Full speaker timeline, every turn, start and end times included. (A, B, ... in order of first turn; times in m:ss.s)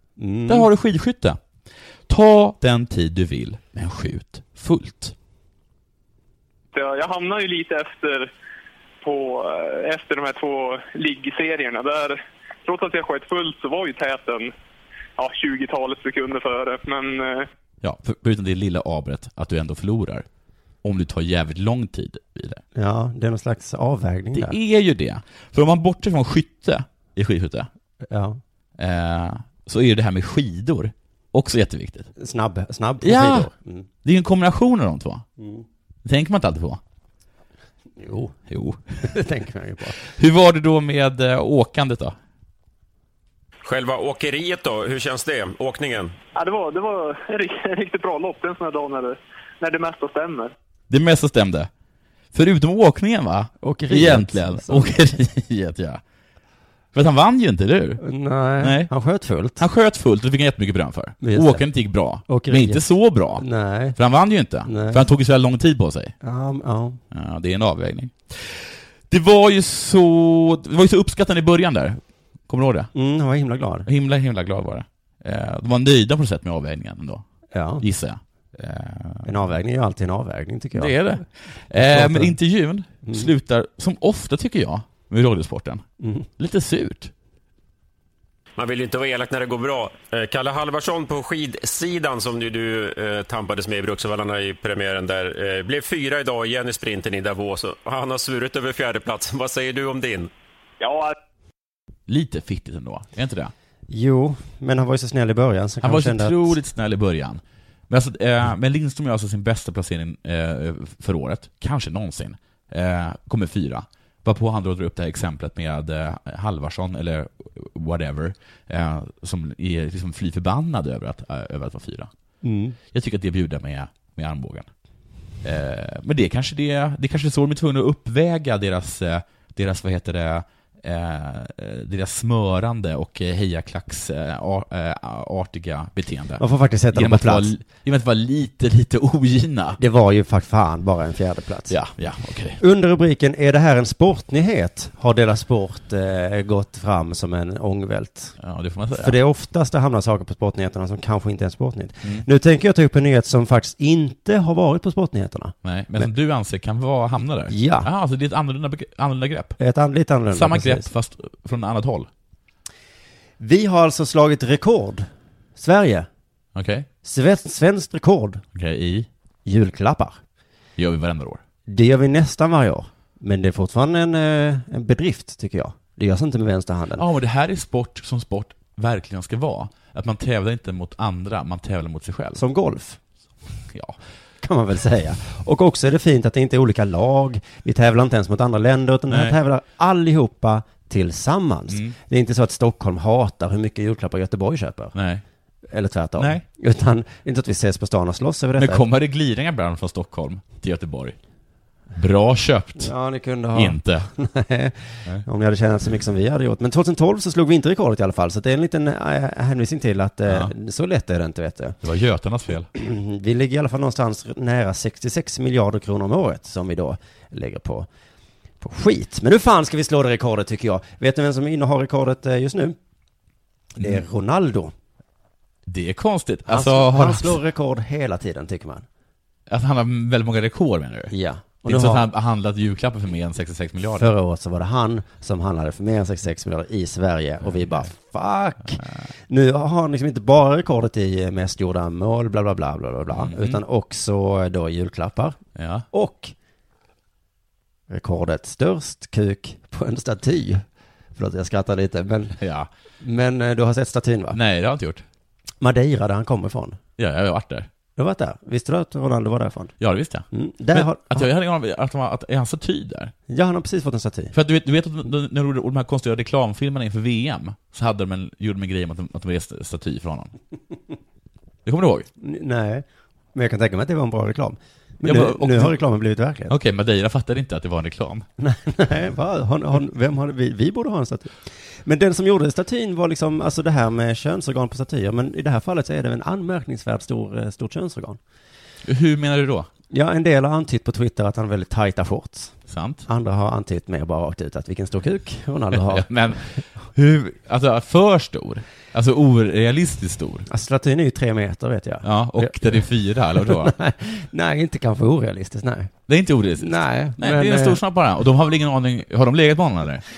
0:00.2-0:00.7 A
0:00.5-0:01.4 B
0:02.1-0:05.1 B
0:06.7-0:08.3 C
0:09.0-0:14.5 C
0:15.2-0:17.5 C
0:17.8-0:20.2 B
0:20.8-0:22.6 B
0:22.7-0:24.6 A
0:24.3-0:27.7 B
0:28.1-0:28.4 A
0:28.8-0:32.1 B
0:32.2-0:33.9 A
0:33.0-0:33.5 B
0:34.0-0:35.2 B
0:35.4-0:35.6 A
0:36.0-0:36.8 B
0:38.0-0:38.4 A
0:38.5-0:38.8 B
0:39.0-0:40.0 A
0:40.0-0:42.2 B
0:43.6-0:46.1 D
0:46.3-0:50.5 C
0:50.9-0:51.7 B
0:52.3-0:56.0 B
0:53.6-0:54.9 A
0:56.9-0:58.0 B
0:58.0-0:59.6 A
0:58.6-0:58.9 B
0:59.6-1:06.1 B
1:01.2-1:01.6 A
1:02.3-1:02.8 A
1:03.4-1:04.0 A
1:04.6-1:05.1 A
1:06.2-1:07.0 A
1:07.1-1:12.9 B
1:12.9-1:13.9 A
1:13.8-1:17.2 B
1:17.5-1:17.8 A
1:17.8-1:19.3 B
1:19.2-1:21.1 A
1:20.7-1:25.8 B
1:21.7-1:22.3 A
1:23.0-1:23.3 A
1:26.0-1:26.3 A
1:26.4-1:27.1 B
1:28.6-1:40.3 D
1:40.8-1:41.2 C
1:42.1-1:43.5 B
1:43.9-1:46.6 A
1:45.8-2:02.1 B
2:02.4-2:02.8 A
2:02.9-2:04.7 B
2:05.4-2:19.8 B
2:16.4-2:17.5 A
2:19.8-2:21.8 A
2:21.7-2:22.6 B
2:22.6-2:28.4 A
2:28.4-2:29.2 B
2:29.0-2:36.1 A
2:35.6-2:39.6 B
2:37.5-2:37.9 A
2:39.6-2:40.9 A
2:40.3-2:42.1 B
2:43.4-2:46.1 A
2:46.5-2:46.9 B
2:47.0-2:48.4 A
2:48.5-2:49.1 B
2:49.4-2:50.2 A
2:50.8-2:51.4 B
2:51.7-2:57.0 A
2:57.0-3:02.4 B
3:02.3-3:03.0 A
3:03.7-3:04.0 B
3:04.4-3:14.9 A
3:09.1-3:09.4 B
3:11.7-3:12.0 B
3:14.9-3:15.2 B
3:15.7-3:18.8 A
3:16.2-3:16.4 B
3:18.6-3:21.2 B
3:21.9-3:22.9 B
3:22.8-3:31.8 A
3:23.5-3:24.1 B
3:30.3-3:30.5 B
3:31.8-3:32.7 B
3:32.7-3:37.9 A
3:38.6-3:42.8 A
3:43.8-3:44.7 A
3:43.8-3:44.0 B
3:45.7-3:47.4 B
3:46.5-3:48.8 A
3:49.5-3:51.1 B
3:51.1-3:52.0 A
3:51.6-3:54.1 B
3:54.0-4:05.4 A
3:57.4-3:57.9 B
4:03.1-4:03.6 B
4:05.6-4:05.8 B
4:05.9-4:06.3 A
4:07.9-4:10.6 A
4:11.2-4:12.4 A
4:12.4-4:12.7 B
4:13.0-4:14.4 A
4:14.3-4:15.0 B
4:15.6-4:16.8 A
4:17.0-4:17.7 B
4:18.0-4:19.7 A
4:19.8-4:23.1 B
4:20.3-4:21.3 A
4:23.3-4:24.3 A
4:24.3-4:30.3 B
4:31.6-4:32.1 B
4:32.2-4:36.5 A
4:35.0-4:35.8 B
4:36.5-4:38.2 B
4:38.4-4:48.2 A
4:48.8-4:49.7 B
4:49.9-4:56.1 A
4:52.7-4:53.0 B
4:55.7-5:00.5 B
5:00.5-5:02.9 A
5:02.0-5:03.7 B
5:03.4-5:05.9 A
5:06.1-5:10.0 B
5:06.6-5:07.8 A